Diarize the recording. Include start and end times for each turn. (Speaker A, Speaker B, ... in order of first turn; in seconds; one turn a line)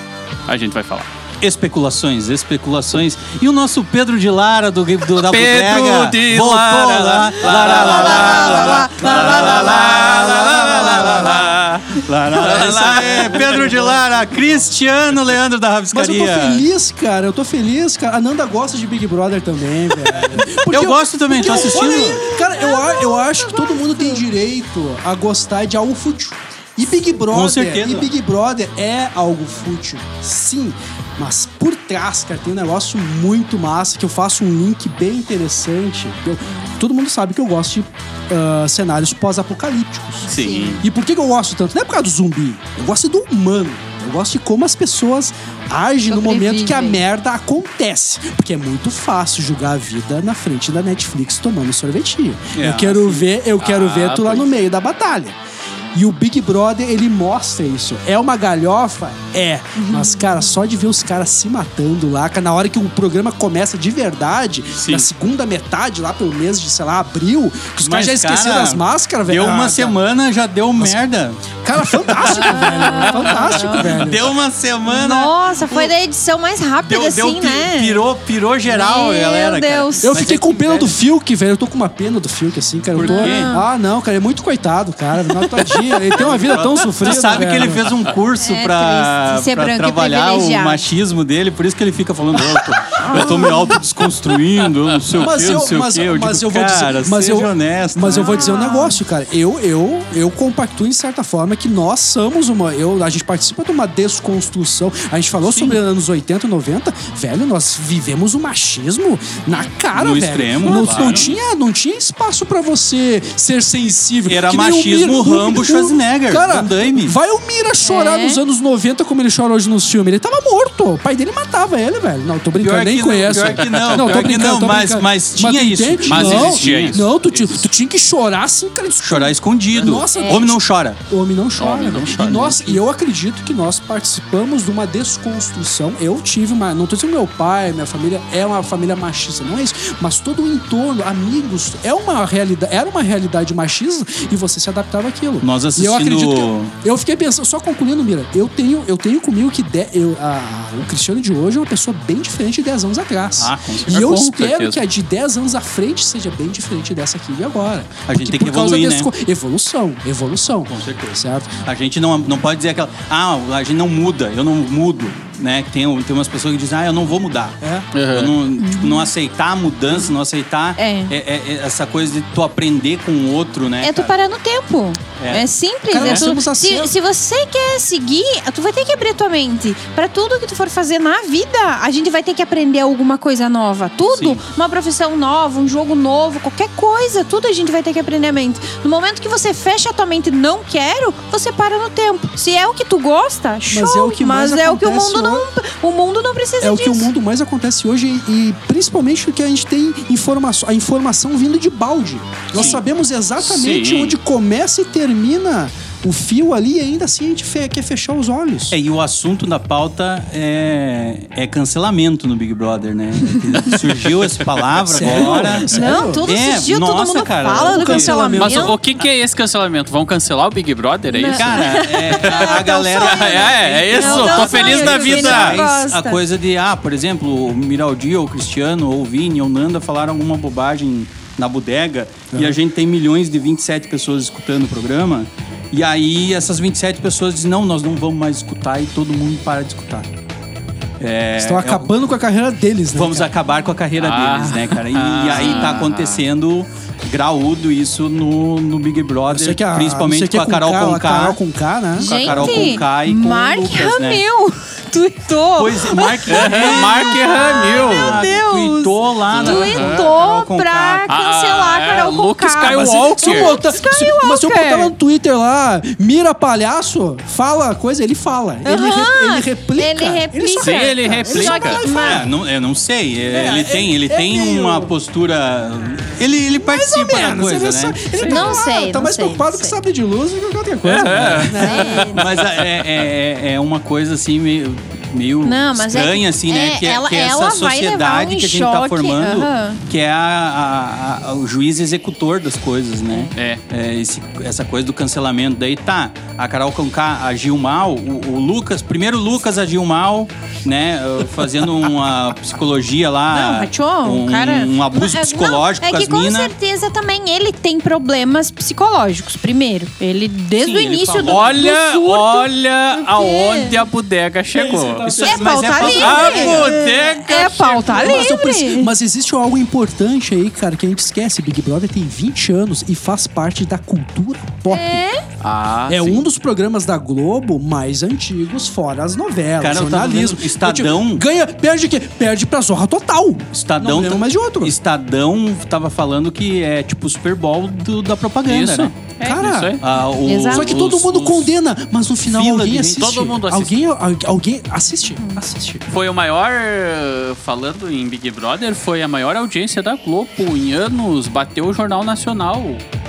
Speaker A: 0.5-1.1
Speaker B: 1.4-16.6
Speaker A: 5.2-9.2
Speaker C: 7.5-10.0
Speaker D: 9.0-11.5
Speaker A: 10.6-14.0
Speaker D: 12.6-13.9
Speaker D: 15.9-40.3
Speaker B: 20.1-22.2
Speaker C: 21.4-24.2
Speaker B: 27.3-28.1
Speaker C: 40.3-40.8
Speaker A: 40.3-40.8
Speaker D: 40.8-55.4
Speaker C: 46.1-47.0
Speaker B: 52.5-53.3
Speaker A: 53.6-54.5
Speaker D: 55.9-70.0
Speaker C: 59.8-60.2
Speaker B: 64.8-65.1
Speaker B: 67.8-75.9
Speaker D: 71.6-74.3
Speaker C: 72.3-73.9
Speaker C: 74.9-78.0
Speaker B: 76.8-80.9
Speaker C: 78.7-80.4
Speaker D: 80.0-87.9
Speaker B: 83.0-83.5
Speaker C: 83.0-83.7
Speaker B: 86.1-98.5
Speaker C: 88.4-90.8
Speaker C: 93.0-93.5
Speaker D: 93.1-93.5
Speaker D: 95.2-161.6
Speaker C: 98.1-99.0
Speaker B: 109.9-111.3
Speaker A: 110.8-111.2
Speaker B: 114.3-117.2
Speaker C: 117.8-118.4
Speaker B: 122.5-127.0
Speaker A: 123.5-124.4
Speaker A: 126.0-127.7
Speaker B: 129.0-131.0
Speaker A: 129.7-130.1
Speaker C: 130.2-130.4
Speaker A: 131.6-132.8
Speaker B: 145.4-146.7
Speaker B: 153.4-154.0
Speaker A: 153.9-154.8
Speaker B: 158.1-159.1
Speaker B: 160.7-167.6
Speaker D: 167.6-167.9
Speaker A: 167.9-168.4
Speaker B: 168.1-174.1
Speaker C: 168.6-169.1
Speaker C: 170.8-171.1
Speaker C: 173.8-197.1
Speaker B: 175.2-175.5
Speaker D: 175.9-176.9
Speaker A: 176.0-176.2
Speaker B: 184.0-184.4
Speaker D: 193.7-195.5
Speaker D: 196.6-208.8
Speaker A: 202.5-202.8
Speaker A: 203.4-204.2
Speaker B: 208.7-218.1
Speaker A: 214.8-215.5
Speaker D: 214.9-216.2
Speaker C: 215.6-218.8
Speaker D: 217.6-218.8
Speaker A: 218.4-225.6
Speaker C: 221.1-226.2
Speaker B: 221.3-240.1
Speaker D: 232.3-232.6
Speaker B: 241.0-241.9
Speaker D: 241.4-243.3
Speaker B: 242.9-251.4
Speaker A: 244.0-246.3
Speaker C: 245.3-245.7
Speaker D: 249.3-252.7
Speaker C: 252.0-264.9
Speaker A: 252.1-252.6
Speaker B: 252.1-254.2
Speaker B: 255.6-261.1
Speaker A: 256.3-258.3
Speaker A: 259.3-260.1
Speaker A: 261.1-263.6
Speaker D: 262.6-272.3
Speaker C: 268.6-272.2
Speaker A: 270.6-271.8
Speaker B: 271.8-278.1
Speaker D: 273.3-274.9
Speaker D: 276.5-282.1
Speaker C: 278.3-279.8
Speaker A: 280.9-282.1
Speaker B: 281.0-281.6
Speaker C: 281.6-282.4
Speaker B: 282.1-306.5
Speaker C: 285.4-289.8
Speaker A: 293.3-293.6
Speaker C: 303.3-313.8
Speaker B: 310.6-311.6
Speaker A: 310.7-315.2
Speaker D: 314.5-316.4
Speaker B: 315.0-316.8
Speaker C: 315.2-318.9
Speaker A: 315.8-318.2
Speaker D: 317.9-325.0
Speaker C: 324.7-325.2
Speaker A: 325.4-326.2
Speaker D: 325.9-334.8
Speaker B: 329.6-331.2
Speaker B: 333.5-338.9
Speaker A: 338.5-339.8
Speaker D: 339.2-339.8
Speaker B: 339.8-341.5
Speaker C: 340.2-340.8
Speaker D: 340.4-345.9
Speaker B: 342.2-343.1
Speaker A: 342.8-343.8
Speaker A: 345.9-352.8